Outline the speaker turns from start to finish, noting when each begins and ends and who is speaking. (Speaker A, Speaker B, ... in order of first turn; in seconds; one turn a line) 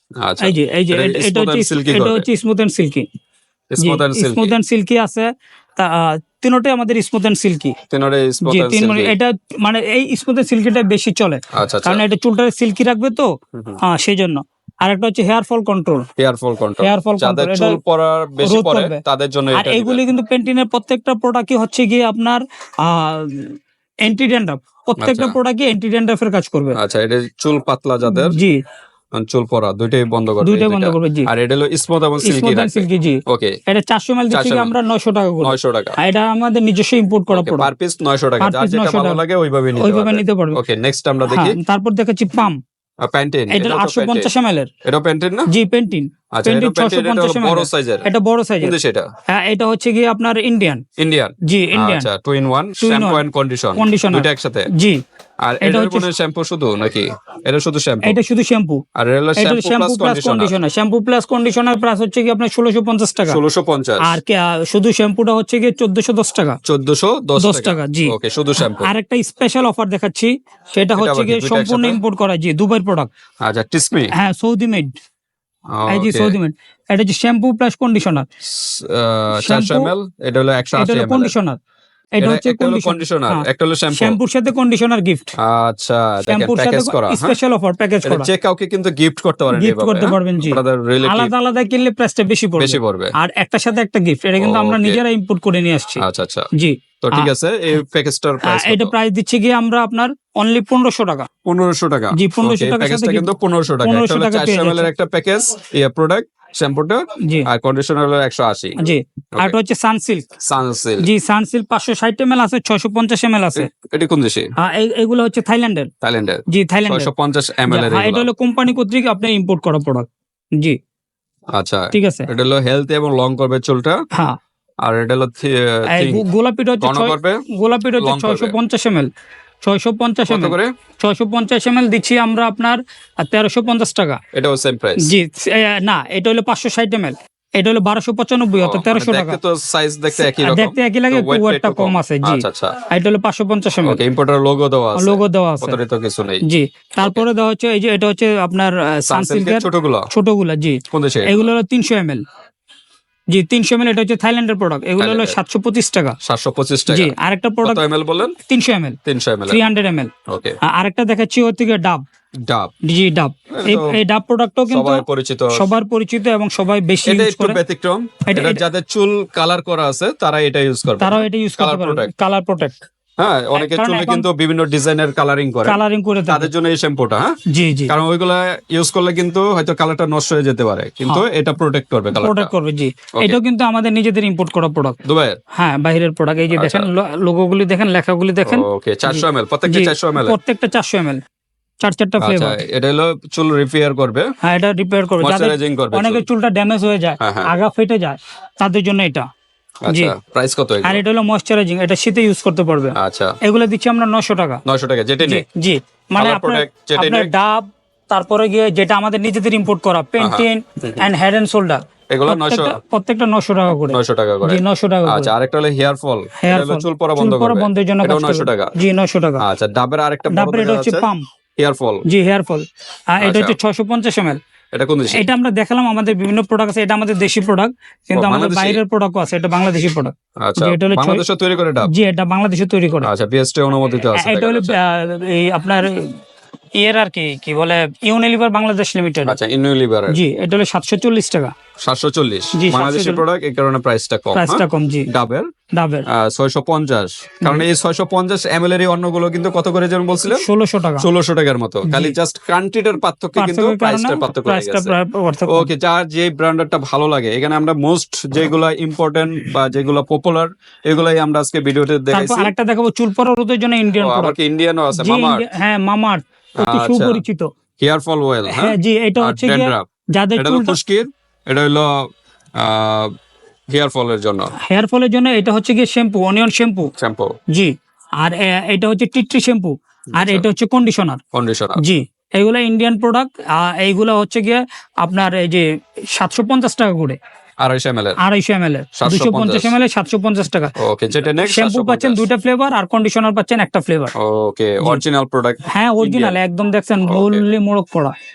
Speaker A: 0.2-2.2
Speaker B: 0.4-3.1
Speaker A: 3.7-4.5
Speaker B: 3.8-7.8
Speaker A: 7.9-9.1
Speaker B: 8.4-13.3
Speaker A: 11.5-12.0
Speaker A: 13.5-13.8
Speaker B: 13.8-16.1
Speaker A: 16.2-20.0
Speaker B: 16.8-17.8
Speaker B: 18.4-19.0
Speaker B: 19.5-23.6
Speaker B: 24.1-26.8
Speaker A: 25.0-25.4
Speaker A: 26.8-28.4
Speaker B: 28.1-28.6
Speaker A: 29.1-33.5
Speaker B: 30.4-31.3
Speaker B: 32.2-37.7
Speaker A: 34.3-34.7
Speaker A: 35.4-36.0
Speaker A: 37.3-41.6
Speaker B: 38.4-39.2
Speaker B: 39.8-40.6
Speaker B: 41.3-42.6
Speaker A: 43.0-44.3
Speaker B: 43.5-44.7
Speaker A: 44.9-45.5
Speaker B: 45.5-48.8
Speaker A: 46.3-48.1
Speaker A: 48.6-49.1
Speaker B: 49.3-50.8
Speaker A: 51.0-54.7
Speaker B: 51.4-52.1
Speaker B: 52.8-53.2
Speaker B: 53.8-55.0
Speaker A: 55.4-58.2
Speaker B: 55.6-56.1
Speaker B: 58.0-58.8
Speaker A: 59.0-60.5
Speaker B: 59.4-63.4
Speaker A: 63.3-64.2
Speaker B: 64.0-66.6
Speaker A: 66.7-68.9
Speaker B: 67.4-73.1
Speaker A: 71.0-72.0
Speaker A: 73.4-74.1
Speaker B: 74.2-74.9
Speaker A: 75.8-76.4
Speaker B: 75.9-78.3
Speaker A: 78.4-81.3
Speaker B: 79.3-79.9
Speaker B: 80.8-81.6
Speaker B: 82.2-85.3
Speaker A: 82.2-84.2
Speaker A: 85.4-87.4
Speaker B: 86.3-88.3
Speaker A: 88.0-91.3
Speaker B: 89.5-96.0
Speaker A: 92.6-93.1
Speaker A: 94.4-95.0
Speaker A: 96.0-96.5
Speaker B: 96.5-97.3
Speaker A: 97.0-98.9
Speaker B: 98.5-101.3
Speaker A: 101.5-109.5
Speaker B: 102.1-103.3
Speaker B: 103.8-104.9
Speaker B: 107.2-107.5
Speaker B: 108.8-110.3
Speaker A: 110.4-111.1
Speaker B: 111.0-113.7
Speaker A: 113.6-114.5
Speaker B: 114.6-115.9
Speaker A: 116.0-118.3
Speaker B: 116.5-117.1
Speaker B: 117.7-120.1
Speaker A: 121.5-124.0
Speaker B: 121.9-122.3
Speaker A: 124.8-126.2
Speaker B: 125.9-129.1
Speaker A: 126.8-127.4
Speaker A: 128.0-128.5
Speaker B: 129.6-134.2
Speaker A: 130.3-130.7
Speaker A: 134.3-135.1
Speaker B: 135.0-139.4
Speaker A: 138.6-142.7
Speaker B: 140.2-144.0
Speaker A: 143.8-146.4
Speaker B: 145.0-145.8
Speaker B: 146.4-152.2
Speaker A: 149.1-150.1
Speaker A: 150.9-151.5
Speaker B: 153.3-156.2
Speaker A: 155.0-155.3
Speaker A: 156.2-158.3
Speaker B: 156.9-157.8
Speaker B: 158.4-159.0
Speaker A: 159.1-159.6
Speaker B: 159.5-160.1
Speaker A: 160.3-160.6
Speaker B: 160.7-162.0
Speaker B: 162.9-167.6
Speaker A: 163.5-163.9
Speaker A: 164.7-165.6
Speaker A: 167.1-172.1
Speaker B: 168.3-168.6
Speaker B: 171.0-172.8
Speaker A: 173.2-177.3
Speaker B: 173.6-174.3
Speaker B: 175.7-176.5
Speaker B: 177.5-177.9
Speaker A: 177.9-182.5
Speaker B: 182.2-185.0
Speaker A: 185.0-185.4
Speaker B: 185.6-191.2
Speaker A: 186.5-186.9
Speaker A: 188.5-190.4
Speaker B: 191.8-192.6
Speaker A: 192.2-194.3
Speaker B: 194.4-199.2
Speaker A: 195.2-196.2
Speaker A: 197.2-197.5
Speaker A: 199.8-201.0
Speaker B: 199.9-200.1
Speaker B: 200.8-204.6
Speaker A: 203.0-203.3
Speaker A: 204.7-205.4
Speaker B: 205.2-215.3
Speaker A: 206.2-207.3
Speaker A: 210.2-211.1
Speaker A: 212.1-212.8
Speaker A: 213.7-218.8
Speaker B: 216.4-219.4
Speaker A: 219.4-221.1
Speaker B: 220.3-221.2
Speaker A: 221.6-222.0
Speaker B: 222.1-222.6
Speaker B: 223.2-224.4
Speaker A: 223.2-223.6
Speaker A: 224.7-225.2
Speaker B: 225.1-231.2
Speaker A: 228.1-228.8
Speaker A: 230.4-231.9
Speaker B: 231.9-233.1
Speaker A: 233.0-234.8
Speaker B: 234.2-236.1
Speaker B: 236.8-239.4
Speaker A: 239.2-240.2
Speaker B: 240.1-241.5
Speaker A: 241.8-245.5
Speaker B: 242.5-243.2
Speaker B: 244.3-245.1
Speaker B: 245.8-246.1
Speaker A: 246.1-250.4
Speaker B: 250.2-251.1
Speaker A: 251.0-254.9
Speaker B: 251.9-252.2
Speaker B: 253.4-255.7
Speaker A: 255.5-262.5
Speaker B: 262.1-264.4
Speaker A: 264.0-265.4
Speaker B: 264.9-267.5
Speaker A: 266.6-267.2
Speaker A: 267.8-269.9
Speaker B: 268.5-270.8
Speaker A: 270.4-271.9
Speaker A: 272.6-273.1
Speaker A: 273.7-274.5
Speaker B: 274.7-276.9
Speaker A: 277.0-277.3
Speaker B: 277.5-281.2
Speaker A: 280.2-280.4
Speaker A: 281.3-281.8
Speaker B: 281.8-287.2
Speaker A: 287.6-288.2
Speaker B: 288.2-290.7
Speaker A: 289.0-289.8
Speaker A: 290.8-292.2
Speaker B: 291.4-294.1
Speaker A: 294.2-296.4
Speaker B: 295.7-298.1
Speaker A: 297.1-297.4